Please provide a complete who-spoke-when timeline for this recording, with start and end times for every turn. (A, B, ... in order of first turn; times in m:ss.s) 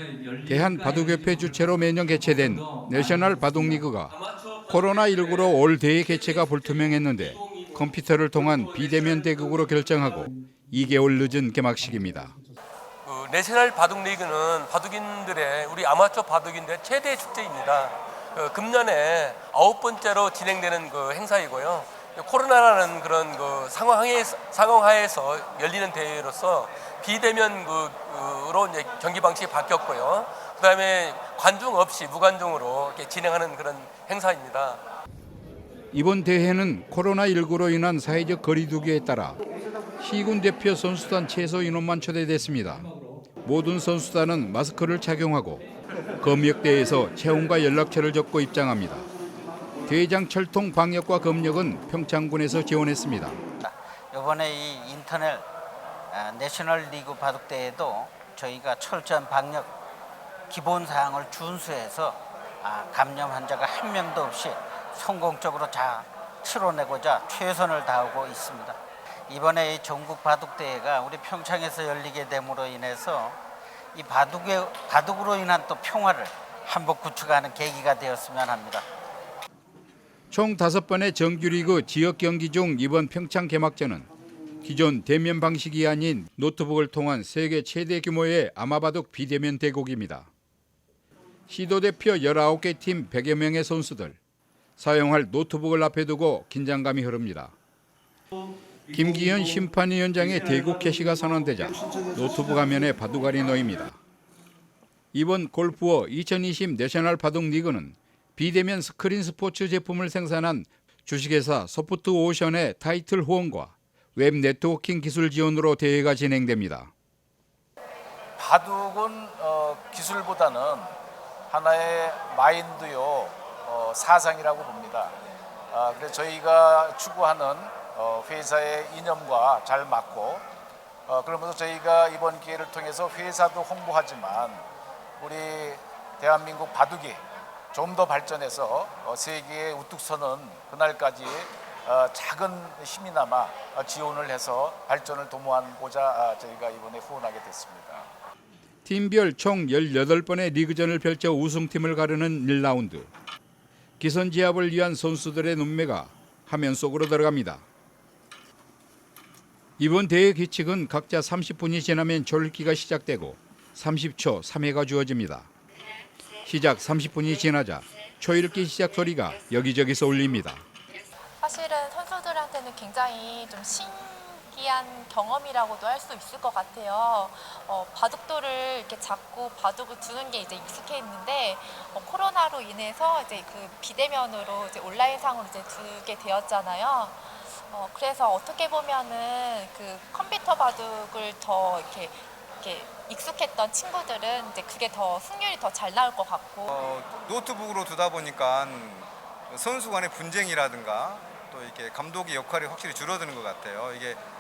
0:00.4-0:04.2 A
0:04.1-0:07.8 B
0:04.7-0:12.4 A
0:08.5-0:09.4 B
0:13.0-0:34.8 B
0:35.9-0:39.4 A
0:40.0-0:42.9 A
0:43.4-0:45.6 A
0:46.2-0:49.1 A
0:49.9-0:53.4 A
0:53.6-0:55.4 C
0:56.1-0:59.7 C
1:00.5-1:08.8 C
1:09.3-1:13.4 C
1:13.9-1:18.8 C
1:20.3-1:24.1 A
1:24.6-1:30.3 A
1:31.5-1:34.2 A
1:34.8-1:37.6 A
1:38.9-1:44.0 A
1:45.1-1:56.9 A
1:58.4-2:00.9 D
2:01.5-2:05.1 D
2:05.7-2:10.4 D
2:11.1-2:14.6 D
2:15.2-2:17.2 D
2:17.7-2:28.1 D
2:28.8-2:33.1 A
2:34.0-2:37.6 A
2:39.8-2:45.5 A
2:46.4-2:50.6 A
2:51.4-3:16.8 E
3:16.7-3:24.2 F